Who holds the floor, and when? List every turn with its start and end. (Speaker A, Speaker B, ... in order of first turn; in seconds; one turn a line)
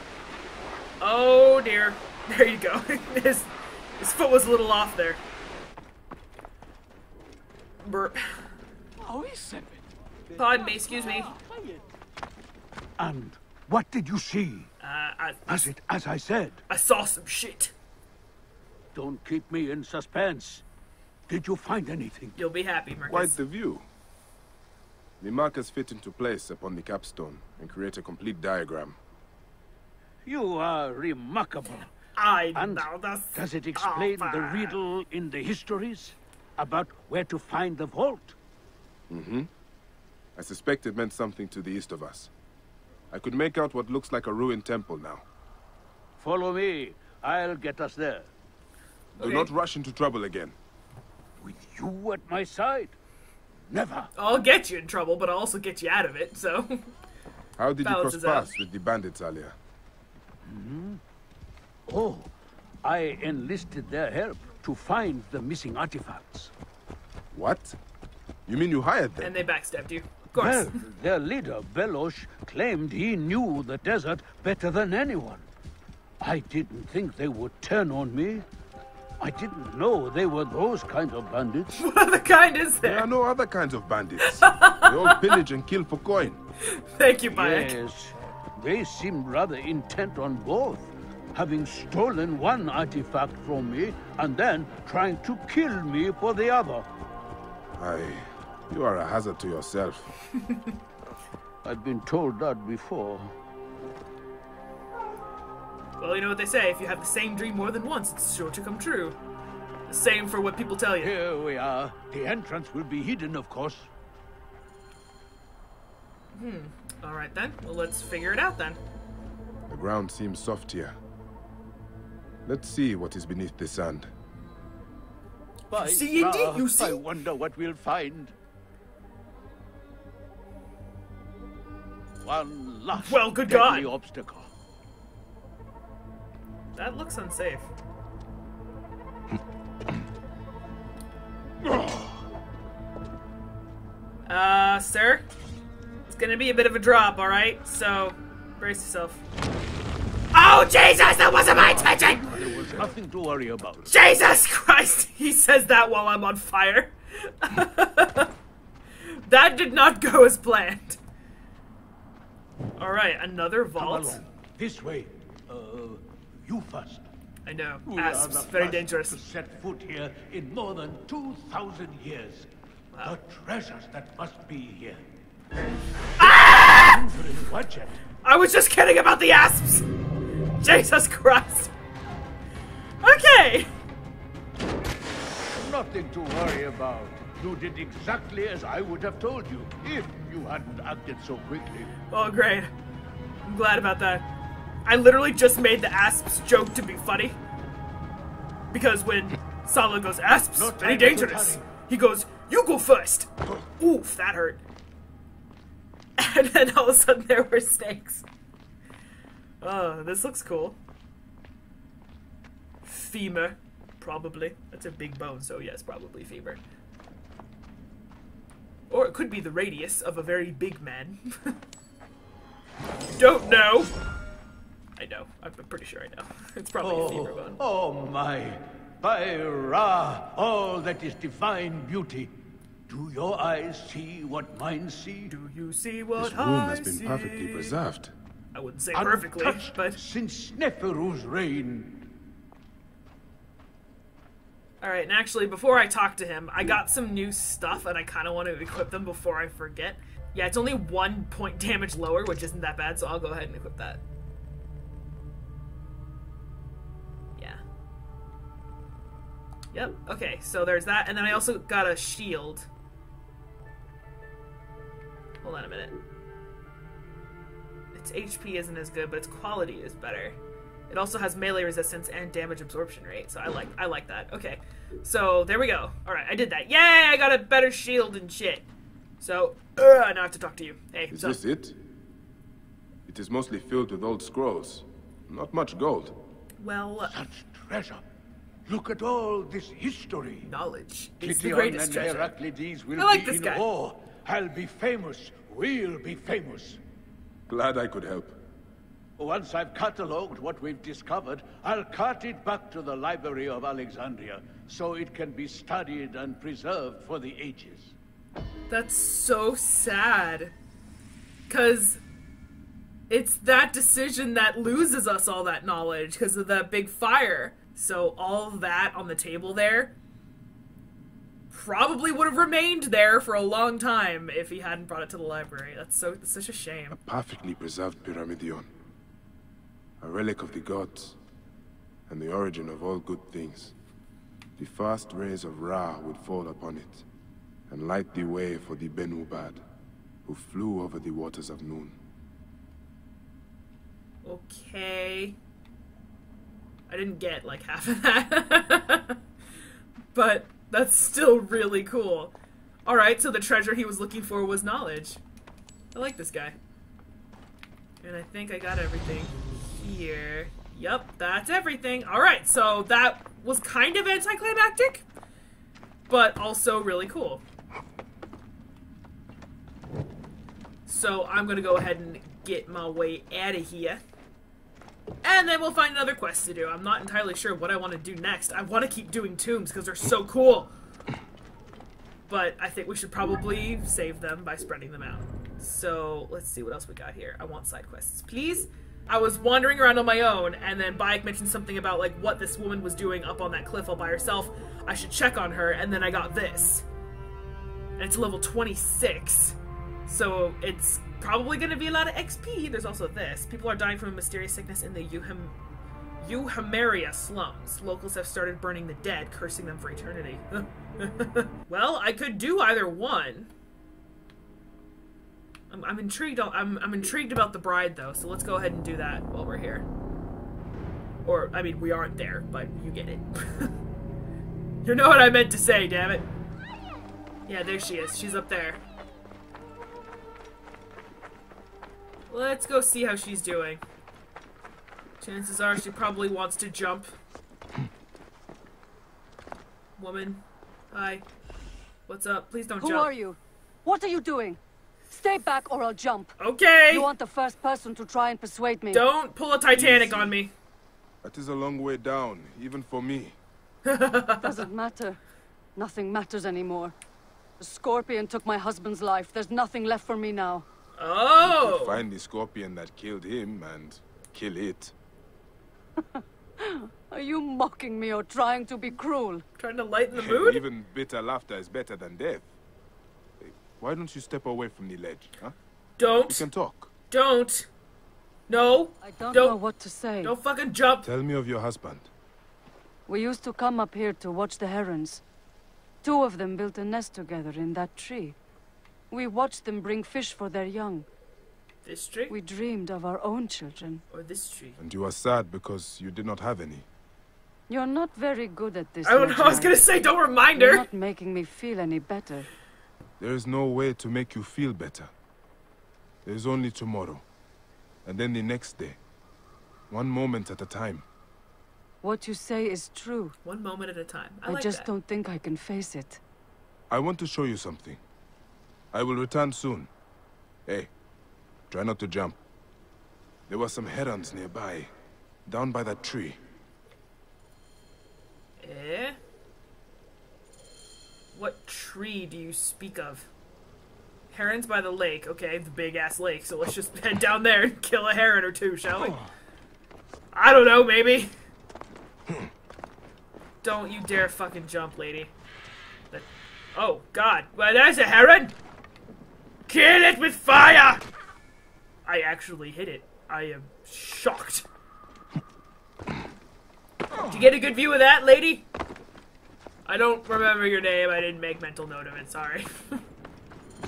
Speaker A: 1.0-5.2
Speaker A: 7.8-8.5
Speaker B: 9.0-9.8
Speaker A: 10.3-11.3
Speaker B: 11.0-11.4
Speaker B: 13.0-14.7
Speaker A: 14.8-15.7
Speaker B: 15.5-16.6
Speaker A: 16.7-17.7
Speaker B: 18.9-20.6
Speaker B: 21.3-22.4
Speaker A: 22.4-23.4
Speaker C: 23.1-23.9
Speaker C: 25.2-29.0
Speaker B: 30.3-31.9
Speaker A: 32.2-34.8
Speaker B: 32.5-38.4
Speaker C: 39.1-39.5
Speaker C: 40.4-42.3
Speaker C: 43.1-45.2
Speaker B: 46.2-48.3
Speaker C: 49.2-50.6
Speaker A: 49.2-49.5
Speaker B: 51.4-53.0
Speaker B: 53.7-54.1
Speaker A: 54.2-56.9
Speaker C: 57.6-59.6
Speaker A: 57.8-58.5
Speaker B: 60.5-61.0
Speaker B: 61.9-62.3
Speaker B: 62.8-66.5
Speaker C: 67.3-67.8
Speaker C: 68.5-69.3
Speaker A: 69.2-70.8
Speaker B: 70.3-75.4
Speaker B: 76.2-78.5
Speaker B: 79.2-81.8
Speaker A: 81.8-83.1
Speaker C: 82.8-86.4
Speaker A: 84.2-85.3
Speaker A: 86.7-87.8
Speaker B: 87.3-96.9
Speaker C: 97.8-100.1
Speaker B: 101.6-103.4
Speaker A: 106.0-109.2
Speaker A: 109.9-111.1
Speaker B: 111.0-113.9
Speaker A: 116.3-118.8
Speaker C: 119.7-121.0
Speaker C: 122.5-124.1
Speaker B: 125.7-128.3
Speaker A: 125.7-127.0
Speaker B: 132.2-134.5
Speaker A: 133.0-133.9
Speaker A: 136.8-137.7
Speaker A: 144.3-145.3
Speaker A: 146.1-149.2
Speaker A: 150.3-152.5
Speaker B: 151.5-153.9
Speaker A: 153.9-158.3
Speaker A: 159.0-161.0
Speaker A: 162.8-164.2
Speaker B: 163.8-167.1
Speaker A: 167.5-169.2
Speaker B: 167.9-172.5
Speaker B: 173.0-175.0
Speaker A: 176.2-177.0
Speaker B: 176.2-178.0
Speaker A: 178.2-179.9
Speaker A: 180.6-181.7
Speaker A: 183.0-183.7
Speaker B: 185.5-191.9
Speaker A: 192.1-192.7
Speaker A: 193.5-194.2
Speaker A: 194.8-197.4
Speaker A: 198.7-204.6
Speaker B: 200.5-201.7
Speaker A: 206.2-208.2
Speaker A: 209.6-210.8
Speaker A: 212.8-216.6
Speaker A: 218.9-221.6
Speaker A: 223.2-223.9
Speaker A: 225.0-227.6
Speaker B: 226.8-232.3
Speaker B: 232.9-235.3
Speaker A: 235.3-237.8
Speaker C: 236.2-238.1
Speaker A: 238.5-240.0
Speaker B: 238.9-242.1
Speaker A: 244.8-254.0
Speaker A: 259.7-262.7
Speaker A: 265.4-266.0
Speaker A: 267.9-270.4
Speaker A: 270.9-278.7
Speaker A: 279.2-281.4
Speaker C: 281.1-281.8
Speaker C: 283.1-286.2
Speaker A: 286.6-287.1
Speaker B: 287.0-288.0
Speaker B: 288.7-290.5
Speaker A: 290.4-292.3
Speaker B: 291.2-296.8
Speaker A: 293.0-293.7
Speaker C: 297.5-298.4
Speaker B: 299.2-307.9
Speaker A: 308.7-310.5
Speaker A: 311.5-312.0
Speaker A: 313.1-319.9
Speaker A: 321.5-327.0
Speaker C: 326.9-328.7
Speaker C: 330.0-331.2
Speaker C: 332.1-333.8
Speaker C: 334.6-337.1
Speaker C: 337.7-339.6
Speaker C: 340.2-342.0
Speaker A: 344.2-345.4
Speaker A: 346.9-349.2
Speaker A: 350.1-352.3
Speaker A: 352.9-355.2
Speaker A: 355.9-356.6
Speaker A: 358.0-365.1
Speaker A: 366.1-367.4
Speaker A: 370.9-374.0
Speaker A: 375.2-380.7
Speaker A: 382.3-396.9
Speaker A: 398.0-405.6
Speaker A: 406.2-413.5
Speaker A: 415.7-419.9
Speaker A: 421.2-423.7
Speaker A: 424.8-426.3
Speaker A: 427.5-428.8
Speaker A: 432.3-433.8
Speaker A: 435.2-437.1
Speaker A: 440.0-441.2
Speaker A: 442.1-443.1
Speaker D: 442.8-446.4
Speaker A: 446.4-447.1
Speaker D: 446.9-449.1
Speaker A: 448.9-450.5
Speaker C: 449.7-450.3
Speaker C: 451.2-453.4
Speaker A: 453.9-454.6
Speaker D: 454.4-455.2
Speaker D: 455.8-456.9
Speaker D: 457.6-460.6
Speaker A: 461.0-462.1
Speaker C: 461.4-464.9
Speaker D: 466.6-469.4
Speaker A: 469.6-470.6
Speaker C: 470.1-472.5
Speaker C: 473.4-475.6
Speaker A: 476.0-476.5
Speaker C: 476.3-476.9
Speaker A: 477.1-477.7
Speaker A: 478.5-479.6
Speaker D: 479.0-480.3
Speaker A: 480.2-481.1
Speaker C: 481.0-482.1
Speaker D: 483.1-485.2
Speaker D: 486.0-488.4
Speaker D: 489.1-491.1
Speaker A: 491.9-492.4
Speaker D: 492.3-494.0
Speaker A: 494.1-494.8
Speaker C: 494.8-496.9
Speaker D: 497.7-499.8
Speaker A: 499.0-500.9
Speaker D: 500.5-502.5
Speaker C: 503.2-505.1
Speaker C: 506.2-507.2
Speaker C: 508.1-509.0
Speaker C: 509.9-511.1
Speaker D: 512.0-513.4
Speaker A: 513.4-514.9
Speaker D: 514.5-516.2
Speaker C: 516.9-518.0
Speaker C: 518.9-519.9
Speaker C: 520.7-520.9
Speaker C: 521.7-522.4
Speaker C: 523.5-524.9
Speaker C: 525.5-526.4
Speaker A: 528.6-529.2
Speaker A: 531.3-533.3
Speaker A: 534.3-539.2
Speaker A: 540.3-541.3
Speaker A: 543.6-545.3
Speaker A: 546.1-548.5
Speaker A: 549.7-551.0
Speaker A: 552.1-554.7
Speaker A: 557.2-558.7
Speaker A: 559.9-563.0